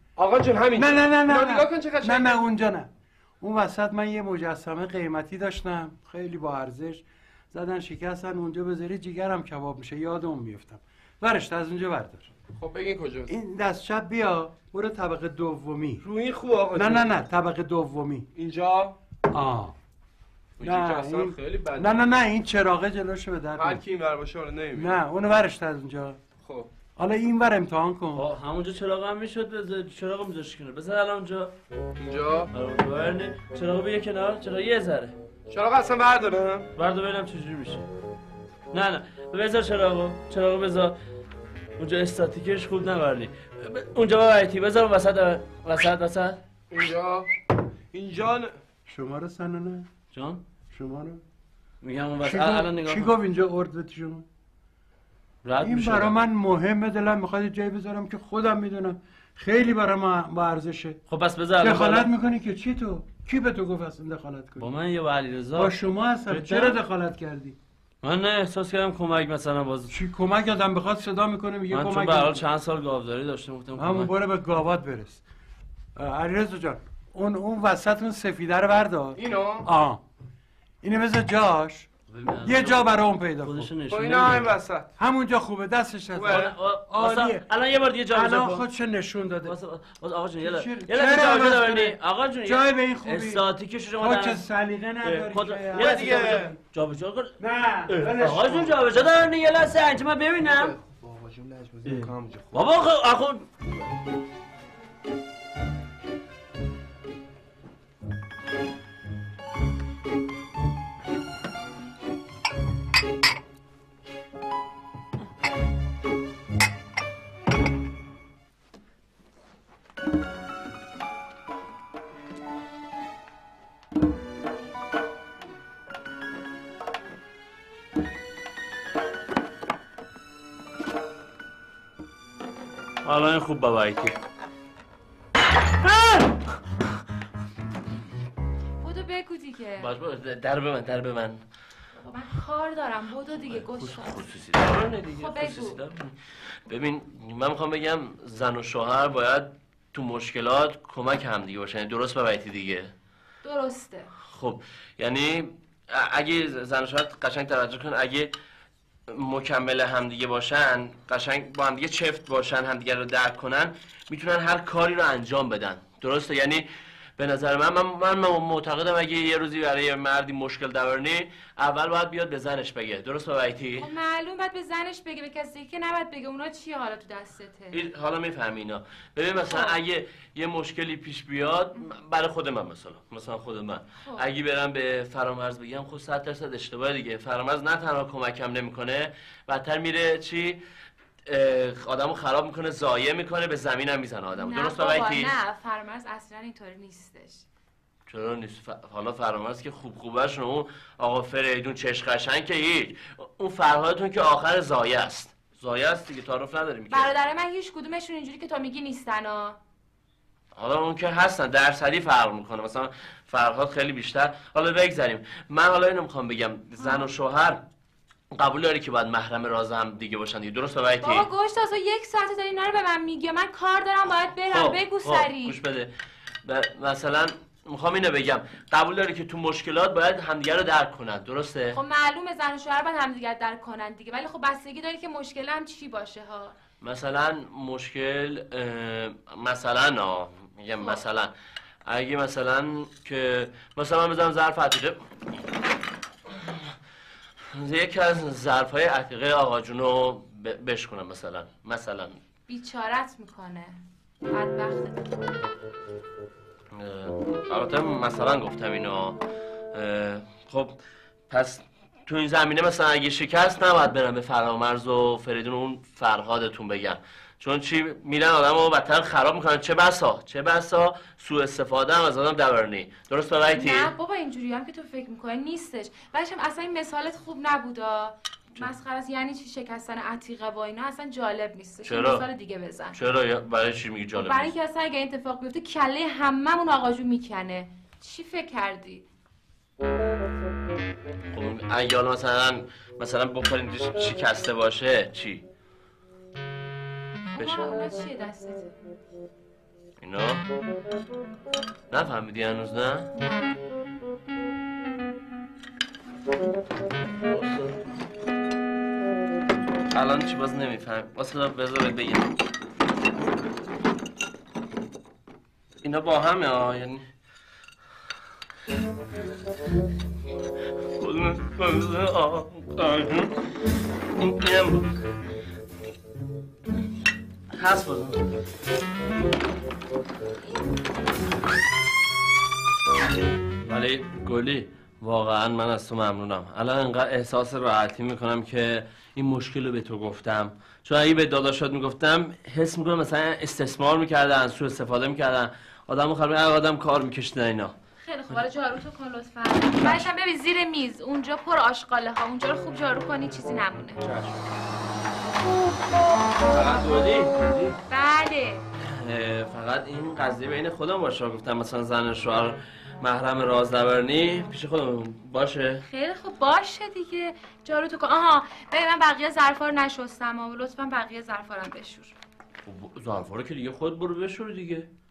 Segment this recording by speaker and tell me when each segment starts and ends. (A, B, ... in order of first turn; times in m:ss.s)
0:00.2-0:02.4 A
0:00.8-0:02.9 B
0:03.4-0:12.3 B
0:12.6-0:13.3 A
0:13.3-0:16.1 B
0:16.0-0:17.1 A
0:16.7-0:18.3 B
0:18.4-0:19.0 A
0:19.3-0:19.8 B
0:20.6-0:22.0 A
0:20.6-0:23.8 B
0:23.6-0:25.0 A
0:24.7-0:26.2 B
0:26.4-0:26.7 A
0:27.0-0:28.2 B
0:28.1-0:31.5 C
0:32.0-0:32.5 A
0:32.5-0:35.2 C
0:35.5-0:36.7 A
0:36.8-0:37.9 C
0:38.7-0:40.9 C
0:41.8-0:46.4 C
0:46.7-0:47.3 A
0:47.9-0:48.6 A
0:48.9-0:49.9 B
0:50.1-0:50.4 C
0:50.7-0:51.2 B
0:51.8-0:53.1 C
0:52.2-0:54.2 B
0:55.4-0:56.2 C
0:55.6-1:01.0 B
1:01.1-1:02.1 C
1:01.6-1:04.7 B
1:04.6-1:05.8 C
1:05.6-1:07.6 B
1:06.3-1:06.8 C
1:08.0-1:09.9 C
1:09.9-1:12.4 B
1:11.7-1:14.1 C
1:13.8-1:15.2 B
1:16.0-1:20.0 B
1:19.2-1:19.7 A
1:20.8-1:21.9 B
1:22.1-1:24.6 C
1:22.4-1:23.7 B
1:23.9-1:24.9 A
1:25.0-1:27.4 B
1:26.1-1:26.6 A
1:26.3-1:28.6 C
1:28.1-1:29.6 B
1:29.4-1:34.4 C
1:30.4-1:33.4 B
1:34.0-1:36.5 B
1:35.0-1:37.3 C
1:35.7-1:36.6 A
1:37.4-1:38.5 B
1:37.9-1:40.8 C
1:38.2-1:38.7 A
1:40.4-1:42.7 A
1:41.8-1:43.4 C
2:13.0-2:14.2 C
2:15.9-2:16.3 C
2:18.8-2:19.9 D
2:19.8-2:21.4 C
2:22.0-2:25.8 D
2:23.5-2:26.1 C
2:26.7-2:32.9 C
2:33.4-2:34.1 D
2:34.3-2:38.3 C
2:39.1-2:46.7 C
2:47.2-2:53.9 C
2:53.8-2:57.8 D
2:57.7-3:10.6 C
2:59.4-2:59.8 D
3:11.3-3:15.4 C
3:14.4-3:17.5 D
3:18.1-3:27.2 C
3:26.9-3:29.6 D
3:30.6-3:37.6 C
3:36.8-3:37.1 D
3:38.4-3:41.3 C
3:41.0-3:45.6 D
3:44.3-3:45.9 C
3:46.4-3:51.8 C
3:51.7-3:56.6 D
3:56.8-4:01.3 C
4:01.9-4:05.0 C
4:07.5-4:12.2 C
4:12.5-4:13.8 D
4:14.3-4:15.0 D
4:16.8-4:19.2 C
4:19.7-4:20.8 C
4:21.3-4:33.9 C
4:33.5-4:43.0 D
4:41.8-4:42.2 C
4:42.9-4:44.5 C
4:44.2-4:49.1 D
4:51.3-4:55.4 C
4:57.3-4:58.7 D
4:57.4-4:57.6 C
5:00.0-5:00.4 C
5:01.9-5:03.1 C
5:07.2-5:07.8 C
5:09.9-5:12.4 C
5:15.8-5:17.0 C
5:21.0-5:23.3 C
5:24.2-5:24.9 C
5:27.5-5:28.2 C
5:33.6-5:47.7 C
5:48.0-5:54.2 D
5:49.8-5:50.1 C
5:56.5-5:57.8 C
5:57.9-5:58.6 D
5:58.8-6:05.8 C
6:05.8-6:12.1 D
6:12.6-6:14.9 C